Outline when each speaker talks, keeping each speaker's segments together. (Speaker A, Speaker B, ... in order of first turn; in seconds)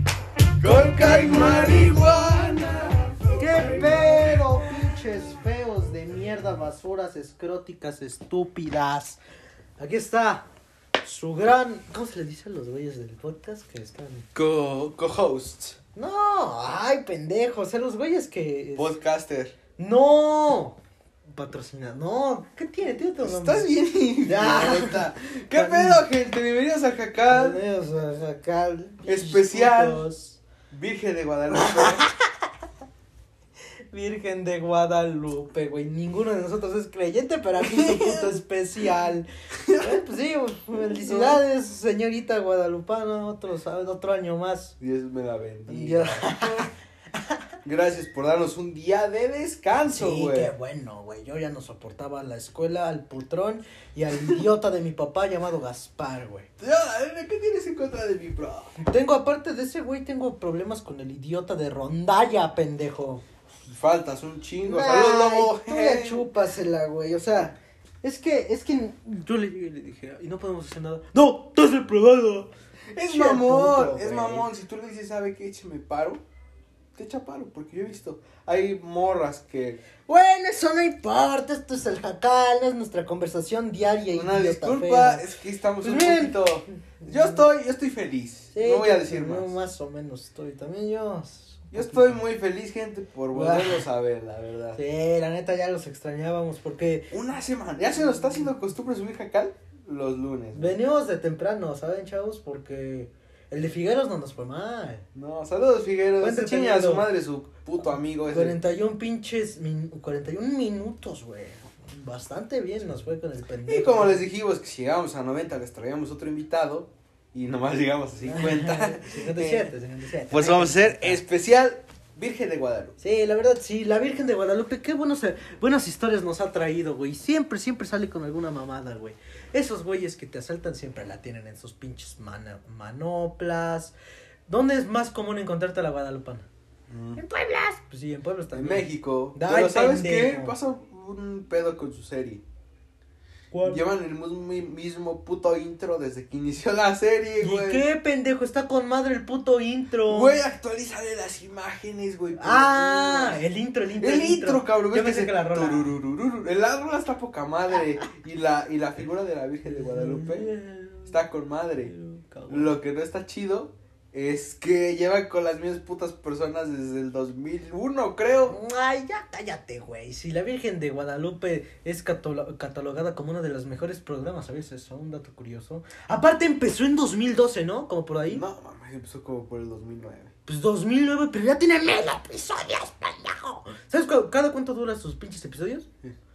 Speaker A: 0.6-4.4, 14.3-15.8, 18.7-19.6, 23.2-27.6, 29.1-30.1, 30.7-32.1, 37.6-38.4, 39.6-40.0, 40.9-41.4, 44.8-46.7, 47.6-50.5, 56.6-58.7, 63.6-66.3, 72.9-76.2, 76.9-79.8, 84.1-89.6, 91.7-94.8, 97.1-100.8, 105.1-108.6, 113.7-119.7, 120.3-123.0, 136.9-137.2, 138.5-142.4, 143.6-147.9, 150.0-153.4, 154.0-160.5, 161.1-161.9, 162.5-168.6, 178.3-180.3
Speaker B: 3.3-9.2, 9.8-10.5, 11.0-14.3, 15.9-18.9, 19.8-26.1, 27.3-30.4, 31.5-32.1, 33.9-44.7, 45.7-46.7, 49.8-56.5, 58.8-63.2, 64.6-74.5, 80.1-85.3, 85.8-87.5, 88.5-92.3, 93.3-93.8, 94.7-97.1, 98.0-98.5, 100.5-105.0, 106.2-107.1, 108.2-114.2, 118.2-121.2, 123.0-133.9, 134.5-136.5, 137.2-140.5, 143.5-143.8, 147.4-150.4, 152.3-155.9, 159.6-161.2, 161.8-162.8, 168.5-178.4, 180.5-185.9